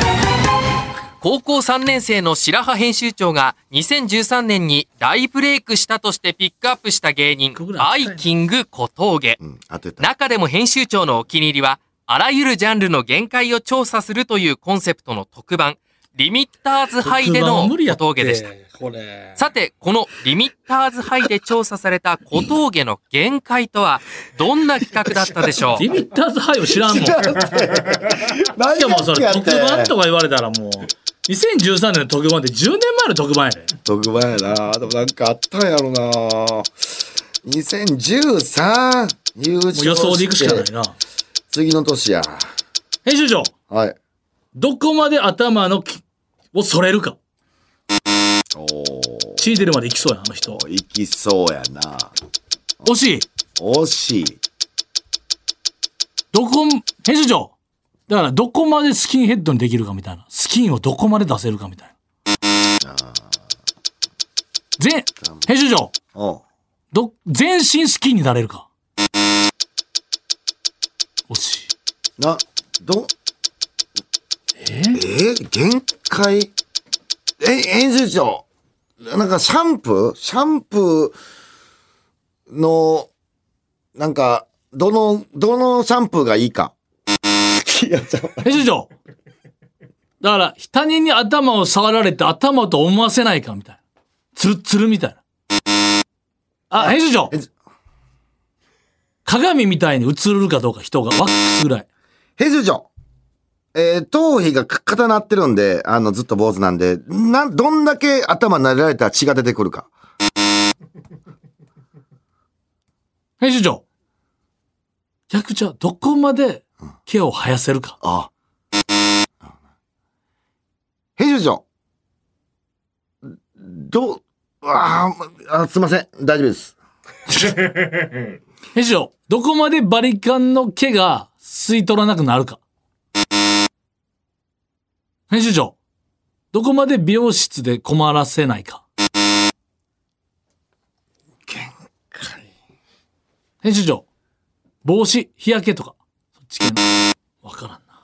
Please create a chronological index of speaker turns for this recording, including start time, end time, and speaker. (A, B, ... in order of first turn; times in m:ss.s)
0:01.2-0:09.4 A
0:07.6-0:08.2 B
0:09.4-0:10.1 C
0:10.0-0:18.5 A
0:17.0-0:19.4 B
0:19.4-0:25.8 A
0:25.8-0:27.3 B
0:26.8-0:29.9 C
0:28.7-0:33.7 B
0:33.8-0:36.7 C
0:37.4-0:40.7 C
0:39.7-0:41.0 B
0:41.5-0:42.5 C
0:43.0-0:43.5 B
0:43.7-0:44.0 C
0:44.6-0:46.0 B
0:46.5-0:47.2 B
0:48.6-0:49.5 C
0:49.4-0:50.6 B
0:50.5-0:52.1 C
0:52.8-0:53.3 B
0:53.6-0:54.4 C
0:56.3-0:57.5 B
0:58.1-1:01.9 B
1:02.8-1:03.4 C
1:04.8-1:05.9 B
1:05.2-1:05.5 C
1:06.1-1:06.4 C
1:06.9-1:08.7 B
1:11.3-1:11.7 B
1:12.2-1:13.1 C
1:14.6-1:15.0 B
1:14.9-1:16.5 C
1:17.4-1:18.4 C
1:19.0-1:21.2 C
1:22.5-1:23.1 C
1:24.0-1:26.7 C
1:27.5-1:28.5 C
1:28.4-1:28.9 B
1:30.2-1:33.8 B
1:34.4-1:35.2 B
1:36.7-1:37.3 B
1:36.8-1:37.5 C
1:39.2-1:41.9 B
1:42.4-1:42.9 C
1:43.7-1:49.9 C
1:53.4-1:53.8 B
1:55.3-1:58.0 B
1:58.0-1:58.3 C
2:01.2-2:01.6 C
2:03.6-2:06.7 C
2:08.7-2:12.6 B
2:15.3-2:15.8 B
2:16.5-2:18.8 B
2:21.5-2:22.5 C
2:23.6-2:24.0 B
2:24.8-2:26.9 B
2:27.4-2:27.9 B